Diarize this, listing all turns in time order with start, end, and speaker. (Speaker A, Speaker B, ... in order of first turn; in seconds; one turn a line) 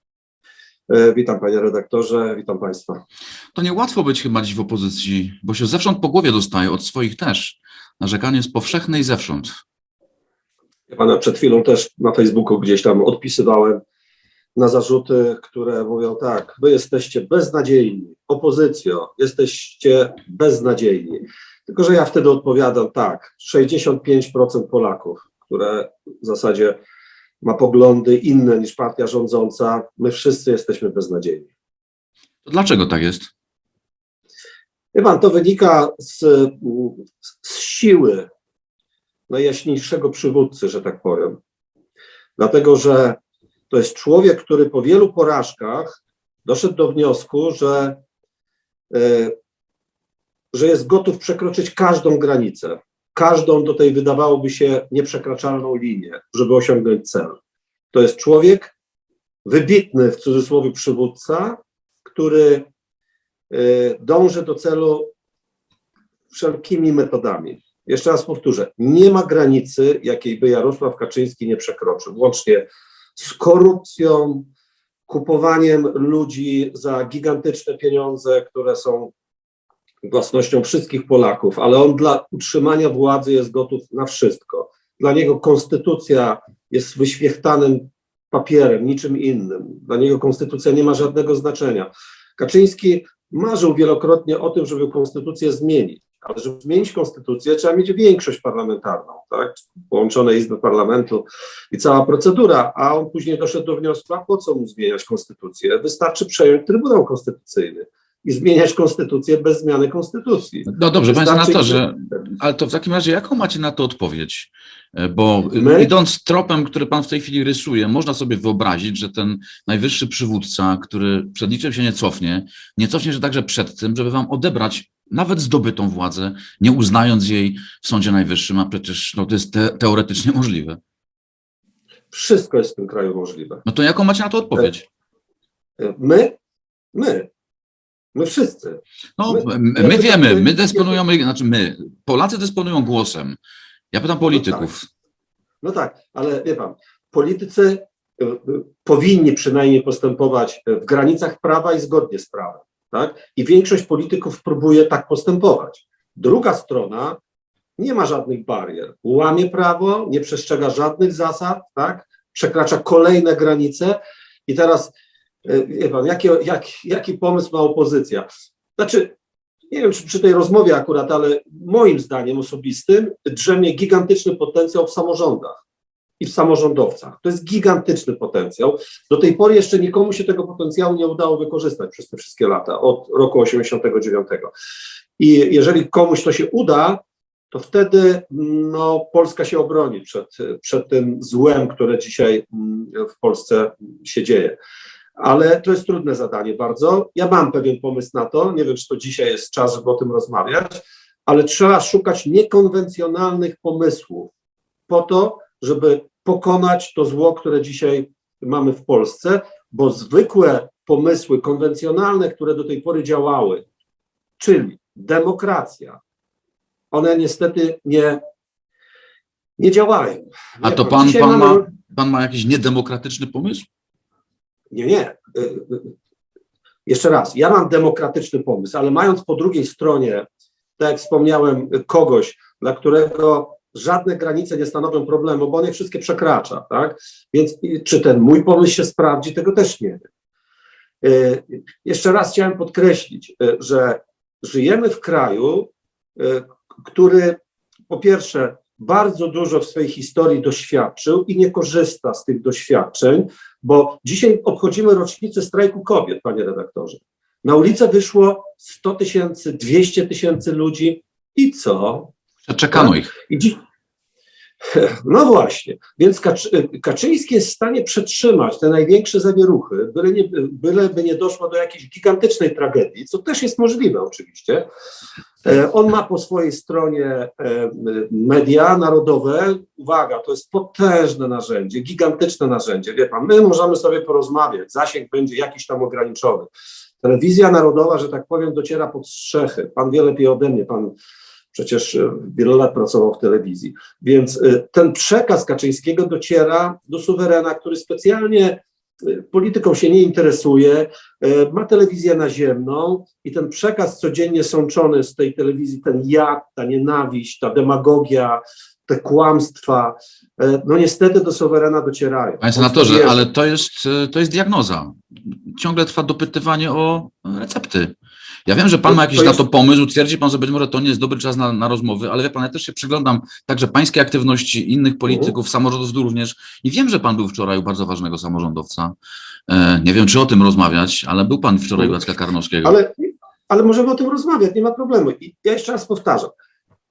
Speaker A: 0.9-3.0
Speaker B: 3.5-9.5
Speaker A: 10.9-13.8
Speaker A: 14.6-26.8
Speaker A: 27.4-31.5
Speaker B: 32.5-33.3
Speaker A: 34.9-38.3
Speaker A: 39.3-41.4
Speaker A: 42.4-43.2
Speaker A: 43.7-48.0
Speaker A: 48.9-49.3
Speaker A: 50.5-57.4
Speaker A: 57.9-58.7
Speaker A: 59.4-62.6
Speaker A: 63.5-65.1
Speaker A: 66.3-74.5
Speaker A: 75.1-79.1
Speaker A: 80.0-111.8
Speaker B: 110.7-130.8
Speaker A: 115.5-115.9
Speaker A: 132.1-133.6
Speaker B: 133.7-134.8
Speaker A: 135.8-136.3
Speaker A: 136.9-137.3
Speaker A: 138.1-141.0
Speaker B: 139.2-143.4
Speaker B: 143.9-144.8
Speaker A: 144.3-144.7
Speaker A: 145.6-157.2
Speaker A: 157.8-164.9
Speaker A: 165.4-169.1
Speaker A: 169.7-175.6
Speaker A: 176.2-184.5
Speaker A: 185.2-194.6
Speaker A: 195.2-204.3
Speaker A: 204.9-213.6
Speaker A: 214.4-216.0
Speaker A: 216.9-218.2
Speaker A: 219.6-221.7
Speaker B: 220.6-223.7
Speaker A: 224.7-225.9
Speaker A: 226.8-230.2
Speaker A: 230.8-240.1
Speaker A: 241.0-247.4
Speaker A: 247.9-262.1
Speaker B: 262.4-263.1
Speaker A: 262.7-263.6
Speaker A: 264.7-274.6
Speaker A: 275.4-286.5
Speaker A: 287.0-290.9
Speaker A: 291.5-313.2
Speaker B: 312.4-317.9
Speaker B: 318.5-328.9
Speaker A: 318.9-319.4
Speaker A: 325.1-325.3
Speaker B: 329.5-332.8
Speaker A: 331.8-332.0
Speaker A: 332.6-336.3